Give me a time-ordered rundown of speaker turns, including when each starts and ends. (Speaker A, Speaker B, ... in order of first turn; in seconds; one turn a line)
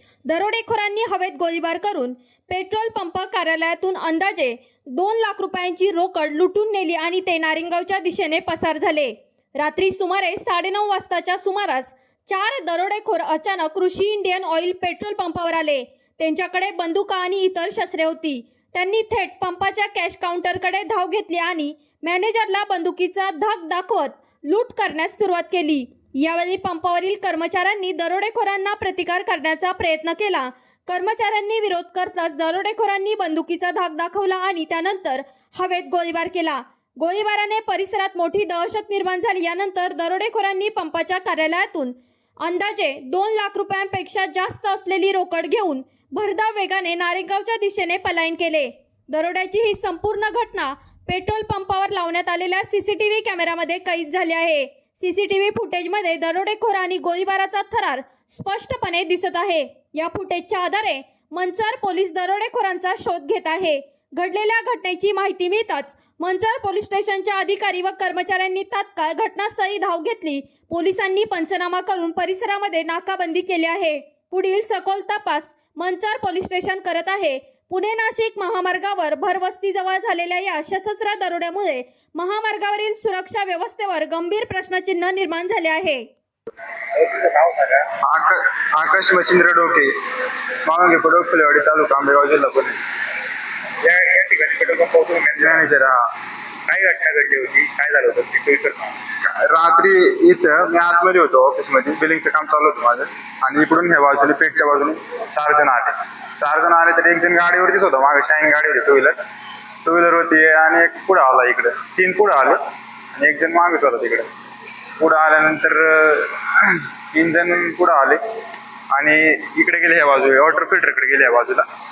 Speaker A: 0.3-86.1
Speaker B: 86.9-87.9
Speaker C: 88.0-89.9
Speaker C: 90.6-92.8
Speaker B: 93.8-95.6
Speaker C: 95.4-96.1
Speaker B: 96.7-99.0
Speaker C: 99.2-109.2
Speaker C: 109.8-112.6
Speaker C: 113.2-114.3
Speaker C: 115.0-118.2
Speaker C: 118.9-121.7